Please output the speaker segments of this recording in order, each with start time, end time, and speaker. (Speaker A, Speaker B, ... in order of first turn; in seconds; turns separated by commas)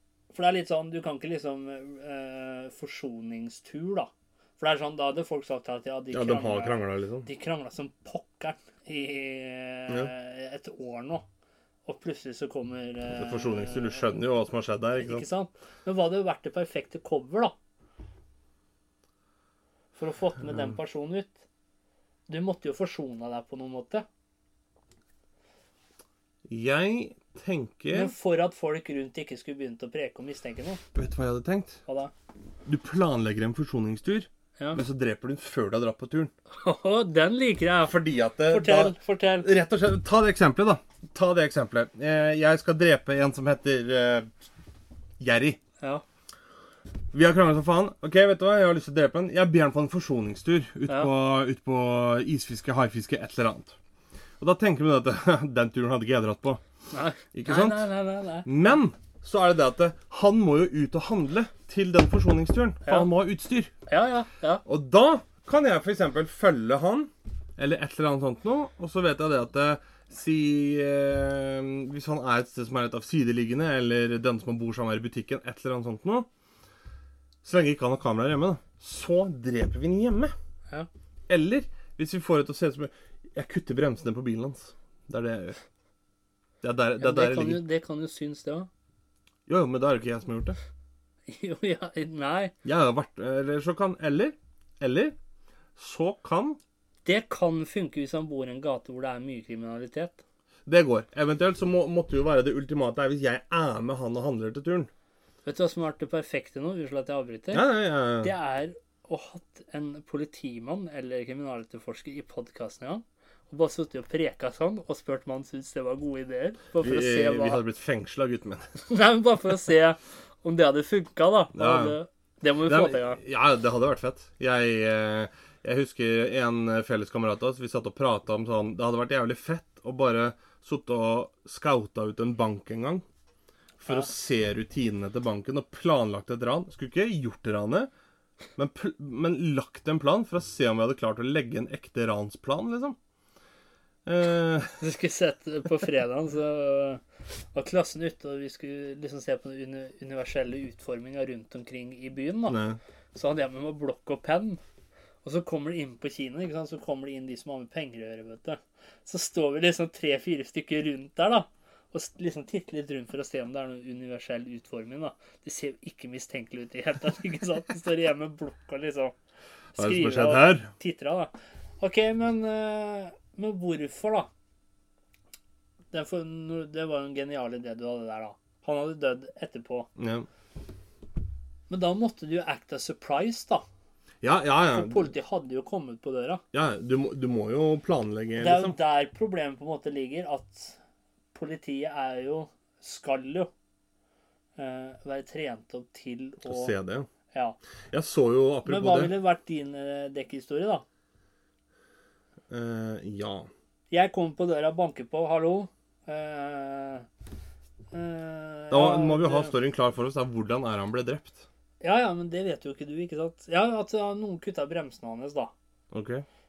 Speaker A: 0.3-11.2, Speaker B: 6.1-7.3, Speaker A: 11.9-14.1, Speaker B: 13.1-15.2, Speaker A: 14.9-17.5, Speaker A: 19.9-21.4, Speaker A: 22.3-24.1, Speaker B: 26.4-28.1, Speaker A: 27.9-30.8, Speaker B: 30.9-31.8, Speaker A: 31.9-32.1, Speaker B: 32.6-36.3, Speaker A: 36.5-37.9, Speaker B: 37.8-44.3, Speaker A: 38.5-39.5, Speaker B: 45.2-45.6, Speaker B: 47.1-53.8, Speaker B: 54.4-56.6, Speaker A: 56.9-58.5, Speaker B: 57.3-57.9, Speaker B: 58.4-63.7, Speaker A: 62.9-63.1, Speaker A: 63.9-64.6, Speaker B: 64.6-76.3, Speaker B: 77.4-80.3, Speaker B: 81.3-85.6, Speaker B: 86.6-87.6, Speaker A: 87.0-88.7, Speaker B: 89.5-90.6, Speaker A: 91.3-92.5, Speaker B: 92.6-95.1, Speaker B: 95.8-96.6, Speaker A: 97.0-100.2, Speaker B: 100.7-104.9, Speaker A: 105.4-107.7, Speaker B: 107.5-108.3, Speaker A: 108.2-117.6, Speaker B: 116.8-118.7, Speaker A: 118.9-123.2, Speaker B: 121.5-122.0, Speaker B: 122.7-133.0, Speaker B: 133.8-137.9, Speaker B: 138.6-142.9, Speaker B: 144.1-144.8, Speaker A: 144.8-147.0, Speaker A: 147.5-152.6, Speaker B: 152.5-152.8, Speaker A: 153.1-154.6, Speaker A: 155.2-169.1, Speaker B: 169.8-170.7, Speaker A: 169.8-174.3, Speaker A: 175.9-179.9, Speaker B: 180.0-180.3, Speaker A: 181.7-183.6, Speaker B: 184.2-185.1, Speaker A: 184.7-186.4, Speaker B: 186.5-188.8, Speaker A: 188.4-190.8, Speaker A: 191.3-193.5, Speaker A: 194.6-196.7, Speaker B: 196.4-197.1, Speaker A: 197.3-197.6, Speaker B: 197.9-199.1, Speaker A: 198.7-200.8, Speaker B: 202.5-203.5, Speaker A: 203.9-207.1, Speaker A: 207.9-209.5, Speaker B: 208.7-211.4, Speaker A: 211.8-215.5, Speaker B: 215.9-216.2